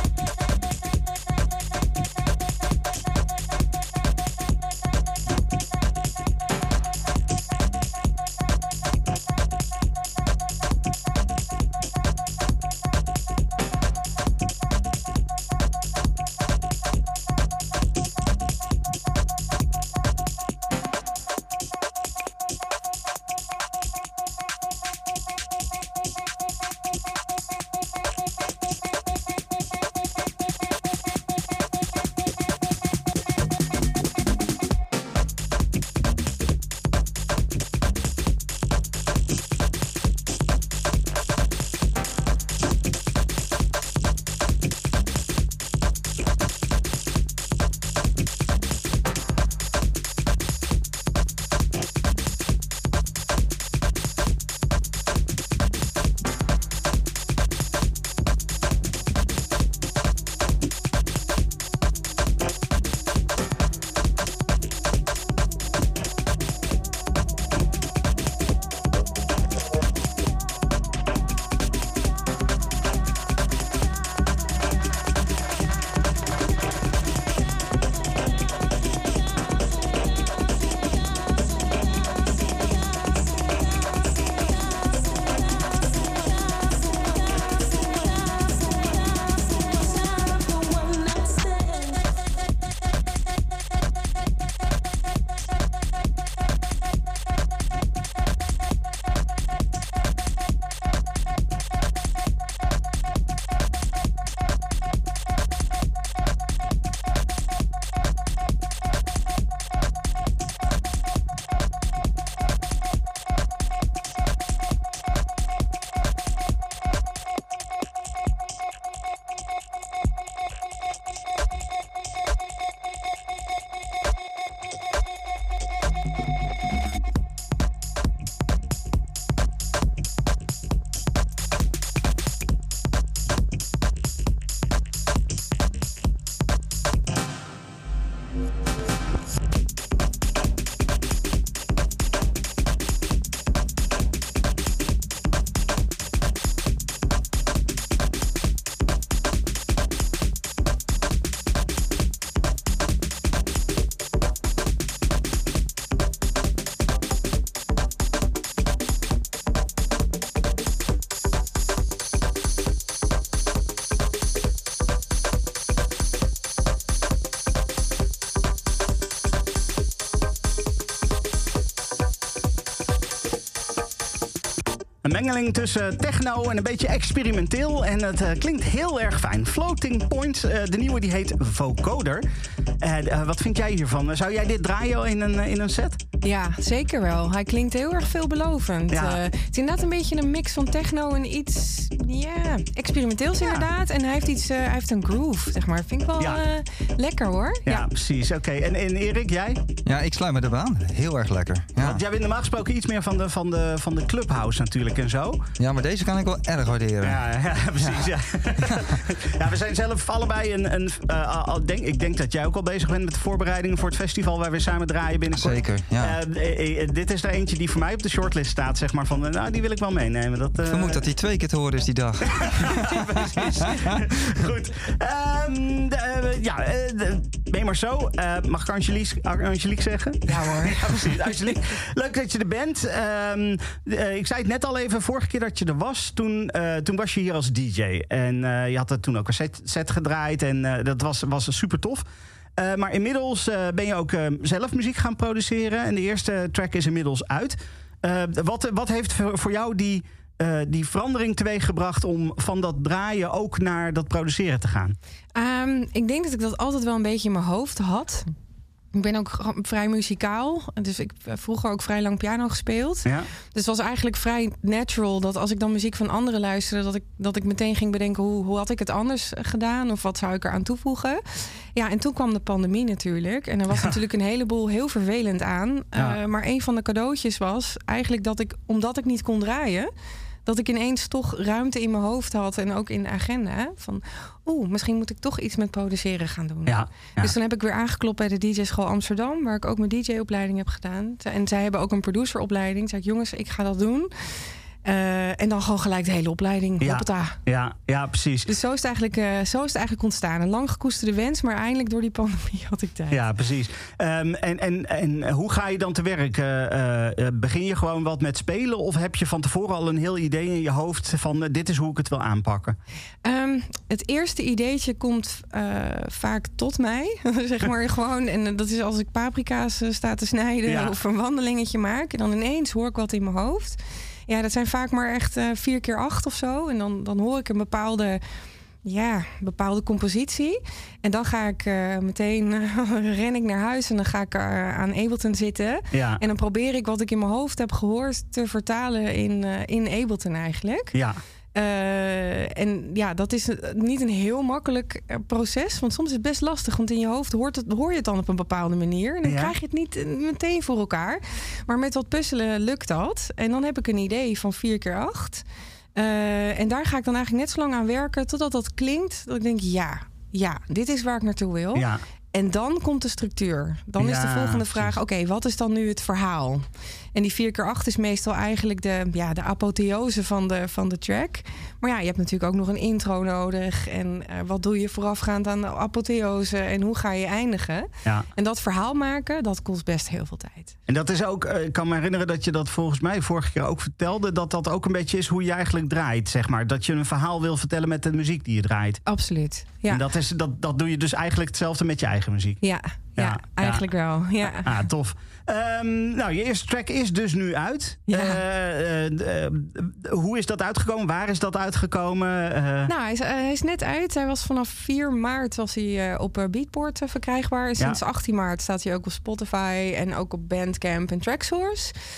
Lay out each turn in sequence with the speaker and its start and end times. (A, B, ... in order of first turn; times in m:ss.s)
2:55.0-3:02.2 A
3:02.8-3:06.0 A
3:06.2-3:17.8 B
3:08.9-3:09.2 A
3:17.7-3:19.6 A
3:19.8-3:22.0 C
3:21.8-3:25.4 A
3:25.6-3:27.2 C
3:27.0-3:41.0 A
3:27.8-3:28.1 C
3:28.6-3:28.9 C
3:35.4-3:36.2 C
3:40.7-3:44.0 C
3:42.3-4:02.0 A
3:50.2-3:51.5 B
4:02.6-4:15.0 A
4:15.3-4:18.3 B
4:18.9-4:39.9 B
4:40.4-4:57.4 B
4:46.6-4:47.3 A
4:56.8-4:58.5 A
4:58.5-5:03.2 B
5:03.1-5:12.8 A
5:13.2-5:28.2 B
5:20.6-5:20.9 A
5:28.8-5:40.9 B
5:35.9-5:36.2 A
5:40.9-5:41.2 A
5:41.5-5:55.4 B
5:49.2-5:49.5 A
5:56.0-6:20.8 B
6:04.0-6:04.9 A
6:20.9-6:29.0 A
6:29.0-6:30.0 B
6:29.9-6:32.6 A
6:32.6-6:34.8 B
6:33.2-6:33.9 A
6:34.4-6:42.9 A
6:38.1-6:38.4 B
6:42.9-6:51.9 B